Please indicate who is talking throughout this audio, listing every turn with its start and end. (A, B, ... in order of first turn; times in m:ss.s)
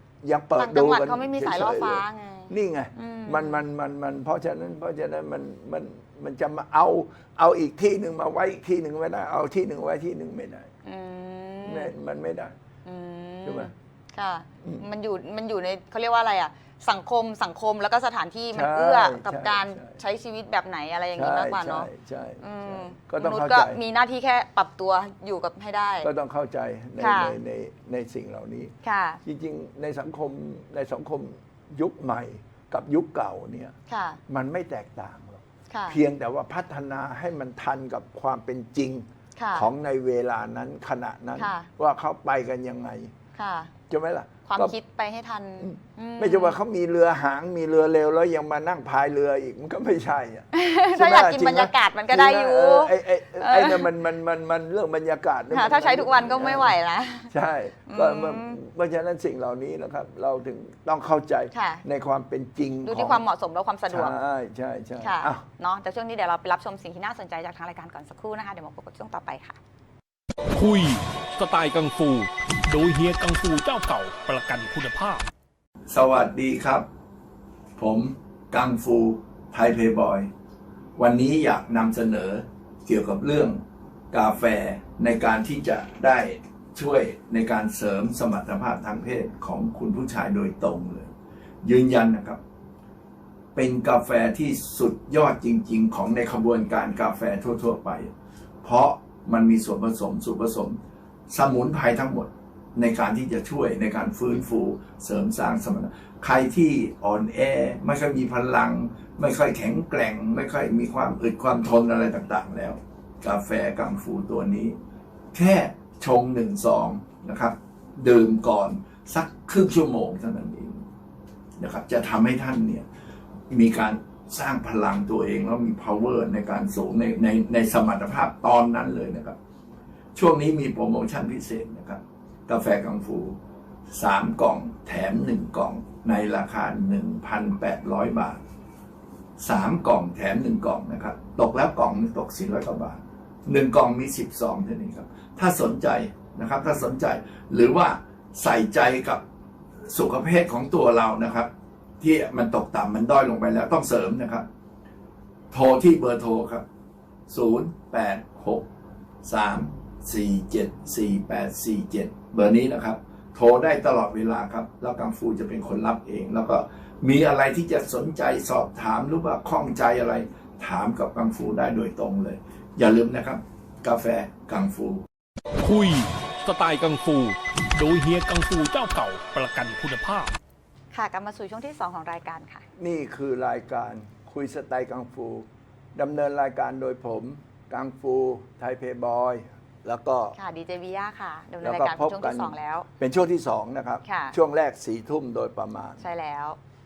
0:00.2-0:10.7 A
0:00.6-0:03.6 B
0:10.8-0:11.9 B
0:11.6-0:12.6 A
0:12.8-0:21.9 B
0:13.5-0:13.7 A
0:18.5-0:20.0 A
0:21.2-0:23.8 A
0:22.4-0:26.1 B
0:26.0-0:28.7 A
0:27.0-0:27.4 B
0:28.8-0:29.2 B
0:29.2-0:33.7 A
0:33.9-0:34.2 B
0:34.3-0:43.1 A
0:35.7-0:36.0 B
0:39.4-0:39.7 B
0:41.4-0:41.7 B
0:43.3-0:43.7 B
0:43.9-0:44.8 A
0:44.5-0:46.6 B
0:45.6-0:56.8 A
0:50.5-0:53.9 B
0:55.5-0:57.3 B
0:57.3-1:03.2 A
0:57.9-0:58.6 B
1:01.5-1:01.8 B
1:02.8-1:04.1 B
1:03.9-1:05.4 A
1:05.0-1:09.6 B
1:10.5-1:15.3 C
1:15.9-1:16.9 A
1:17.8-1:20.3 A
1:21.0-1:23.6 A
1:24.1-1:32.4 A
1:33.6-1:40.8 A
1:41.3-1:54.8 A
1:55.3-2:00.9 A
2:01.6-2:02.8 A
2:03.5-2:09.4 A
2:10.2-2:13.4 A
2:13.9-2:18.4 A
2:19.4-2:29.2 A
2:29.9-2:31.5 A
2:32.0-2:34.4 A
2:35.5-2:36.7 A
2:37.3-2:38.7 A
2:39.2-2:55.1 A
2:55.6-3:00.3 C
3:00.9-3:02.6 B
3:02.8-3:10.4 A
3:10.4-3:12.9 B
3:11.6-3:16.1 A
3:14.0-3:14.4 B
3:16.0-3:16.6 B